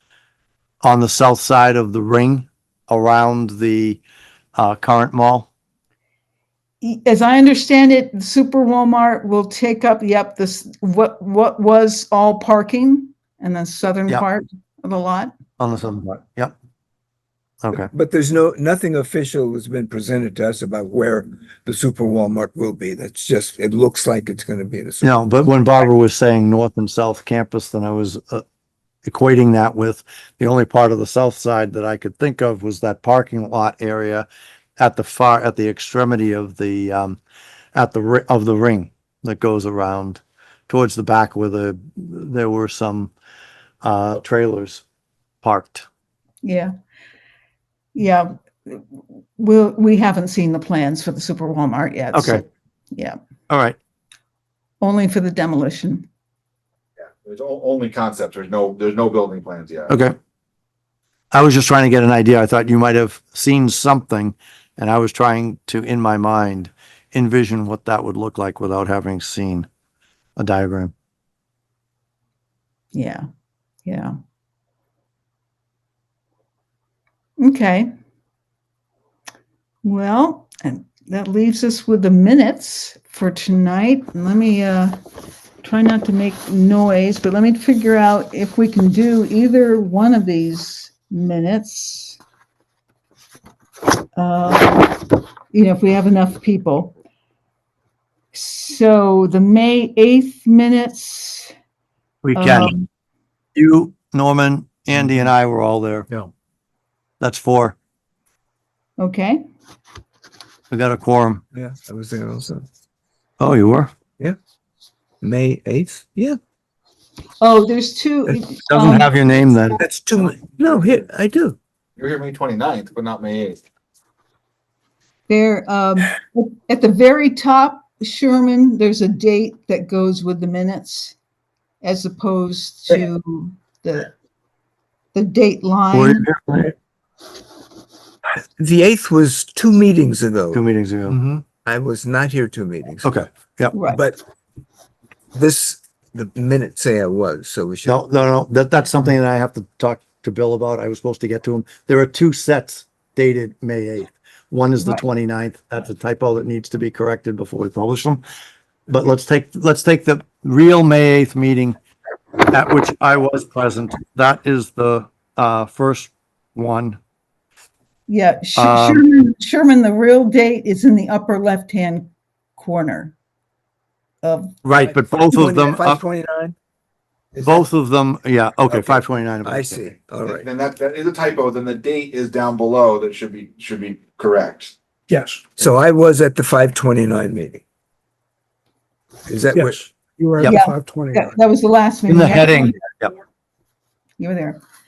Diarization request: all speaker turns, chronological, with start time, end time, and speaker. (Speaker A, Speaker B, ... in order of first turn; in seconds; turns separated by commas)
Speaker A: 0.8-4.0, Speaker A: 4.6-5.5, Speaker B: 6.8-15.3, Speaker A: 15.6-16.6, Speaker A: 17.6-17.9, Speaker C: 17.7-25.1, Speaker A: 25.0-28.4, Speaker A: 29.0-34.3, Speaker A: 34.8-37.2, Speaker A: 37.8-43.1, Speaker A: 43.8-44.8, Speaker A: 45.4-45.9, Speaker B: 46.4-46.7, Speaker B: 48.0-48.9, Speaker B: 49.4-53.2, Speaker A: 52.1-52.4, Speaker A: 53.5-53.8, Speaker B: 54.8-56.1, Speaker D: 57.2-59.9, Speaker A: 59.9-60.2, Speaker A: 61.3-69.7, Speaker A: 70.4-70.9, Speaker B: 72.9-73.2, Speaker B: 73.9-74.1, Speaker B: 77.4-77.9, Speaker B: 79.8-85.0, Speaker B: 85.6-92.2, Speaker B: 94.2-96.9, Speaker B: 98.3-101.5, Speaker A: 102.2-102.8, Speaker B: 102.4-102.8, Speaker A: 103.5-106.1, Speaker A: 107.2-107.8, Speaker B: 109.0-109.4, Speaker A: 110.7-111.4, Speaker C: 111.5-112.7, Speaker A: 113.4-113.9, Speaker C: 115.2-116.4, Speaker B: 117.4-119.2, Speaker A: 118.3-119.8, Speaker C: 119.8-121.6, Speaker D: 122.0-123.6, Speaker B: 125.3-131.2, Speaker B: 131.8-134.1, Speaker B: 135.1-136.3, Speaker A: 135.9-136.7, Speaker C: 138.6-140.6, Speaker A: 140.5-141.2, Speaker D: 141.1-141.4, Speaker C: 141.6-143.1, Speaker A: 143.0-143.8, Speaker B: 143.7-144.0, Speaker C: 143.9-144.2, Speaker C: 145.3-148.0, Speaker A: 147.9-158.2, Speaker A: 158.9-161.8, Speaker A: 162.5-167.0, Speaker B: 168.1-173.1, Speaker A: 168.6-169.0, Speaker B: 174.2-174.6, Speaker A: 174.6-176.0, Speaker C: 175.3-176.6, Speaker C: 177.3-177.6, Speaker A: 177.4-179.8, Speaker C: 178.7-180.5, Speaker D: 180.2-184.7, Speaker E: 185.1-185.4, Speaker C: 185.6-187.6, Speaker C: 189.3-189.8, Speaker E: 189.5-191.3, Speaker B: 190.4-192.8, Speaker A: 192.1-193.1, Speaker B: 194.2-194.6